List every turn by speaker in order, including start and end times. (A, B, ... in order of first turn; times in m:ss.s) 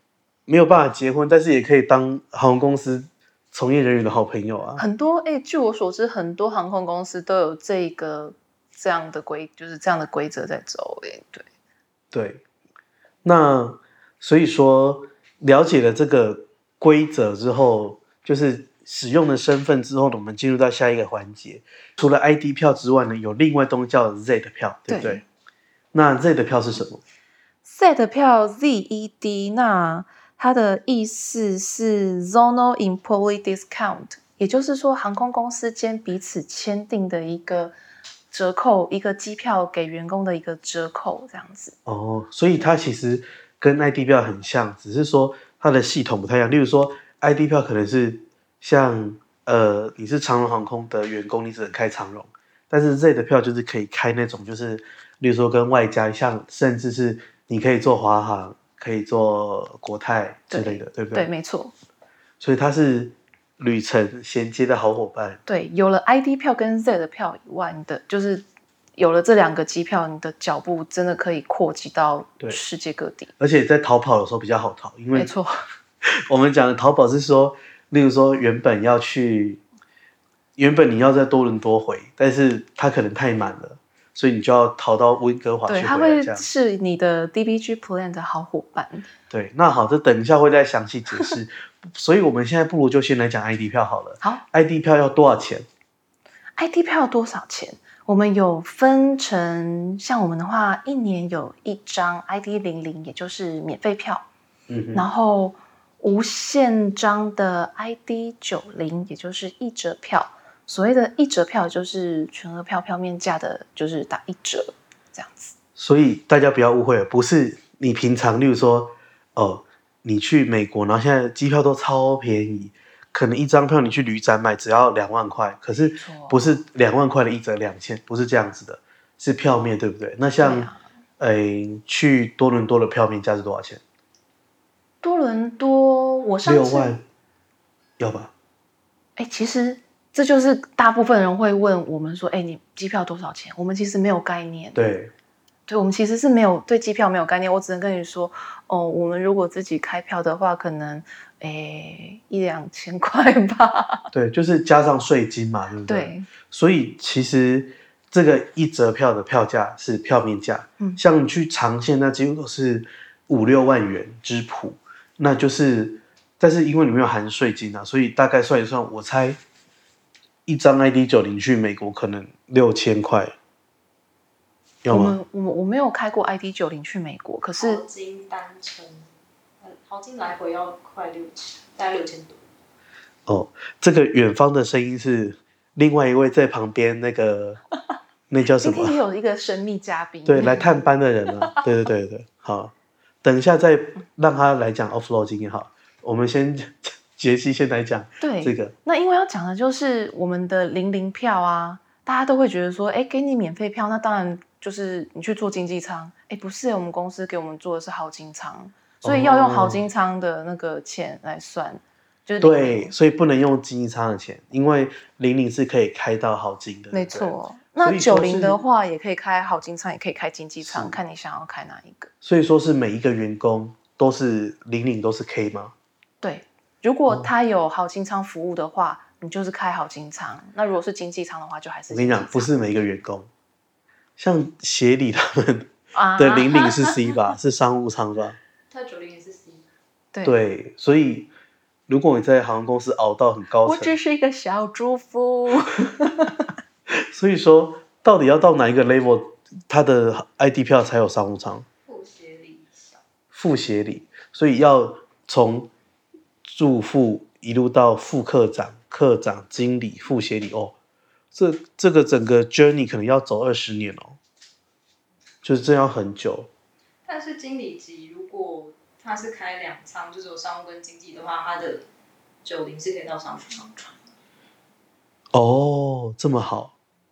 0:00.5-0:04.8 A
0:04.8-0:11.4 B
0:12.1-0:12.4 A
0:13.2-0:25.2 A
0:24.9-0:25.2 B
0:25.9-0:27.0 A
0:27.6-0:37.7 B
0:38.3-0:41.8 B
0:41.9-1:01.3 A
1:00.5-1:01.7 B
1:02.4-1:05.4 A
1:05.5-1:08.4 B
1:09.0-1:13.3 B
1:13.4-1:15.3 A
1:15.2-1:15.6 B
1:16.0-1:19.6 A
1:20.6-1:26.4 A
1:25.7-1:29.1 B
1:29.3-1:35.7 A
1:36.6-1:44.3 B
1:44.7-1:45.0 A
1:44.9-1:55.5 B
1:55.8-2:13.8 A
2:05.7-2:06.4 B
2:10.4-2:10.8 B
2:15.0-2:16.9 B
2:16.4-2:17.0 A
2:18.0-2:18.3 A
2:19.2-2:24.8 B
2:24.8-2:25.1 A
2:25.7-2:34.1 B
2:34.1-2:49.4 A
2:35.9-2:36.3 B
2:50.5-2:53.4 A
2:54.8-2:55.2 A
2:54.9-2:57.8 B
2:57.6-2:59.1 C
2:59.6-3:02.4 C
3:03.3-3:07.6 A
3:08.3-3:09.0 A
3:08.6-3:10.7 B
3:10.3-3:18.7 A
3:18.2-3:32.9 B
3:29.0-3:29.8 A
3:32.4-3:38.6 A
3:36.9-3:42.1 B
3:40.6-3:41.0 A
3:42.2-3:45.7 A
3:46.2-3:52.5 B
3:51.9-3:53.3 A
3:54.2-3:58.4 A
3:55.9-3:57.1 B
3:58.7-3:59.6 C
4:00.2-4:01.3 A
4:01.9-4:04.0 A
4:03.6-4:06.5 B
4:06.9-4:11.7 A
4:11.9-4:13.0 C
4:13.3-4:15.7 A
4:16.4-4:20.8 A
4:21.3-4:24.2 A
4:25.4-4:26.5 A
4:27.0-4:31.9 C
4:32.4-4:34.0 C
4:35.3-4:36.7 A